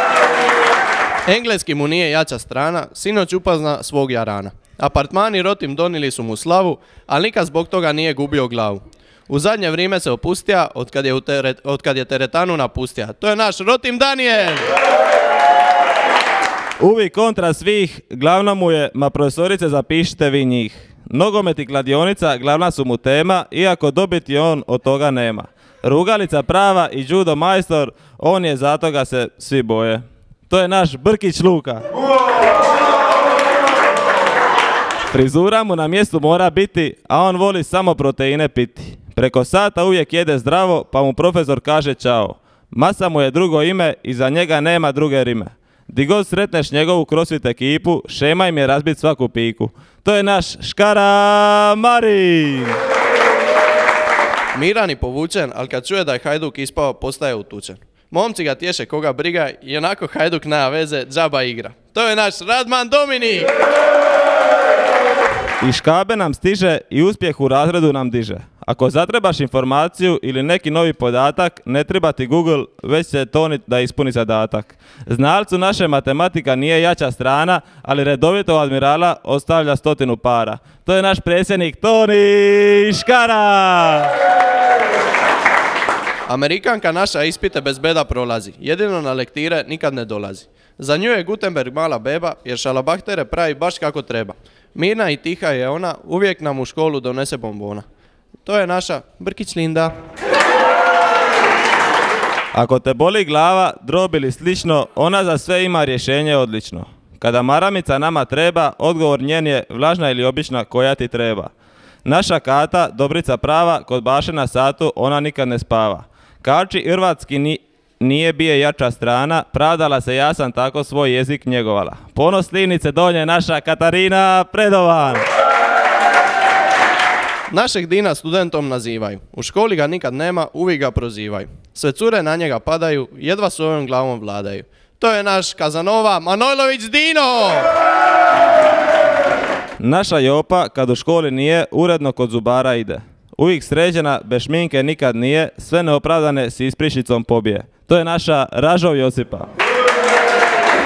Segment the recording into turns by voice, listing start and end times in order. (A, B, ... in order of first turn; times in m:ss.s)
0:01.3-0:14.7 A
0:16.8-0:31.8 B
0:35.1-0:52.8 B
0:54.6-1:03.5 A
1:05.6-1:24.1 B
1:26.3-1:37.8 A
1:38.4-1:40.0 A
1:42.5-1:51.5 B
1:52.0-2:05.2 B
2:07.5-2:17.6 A
2:19.8-2:29.5 B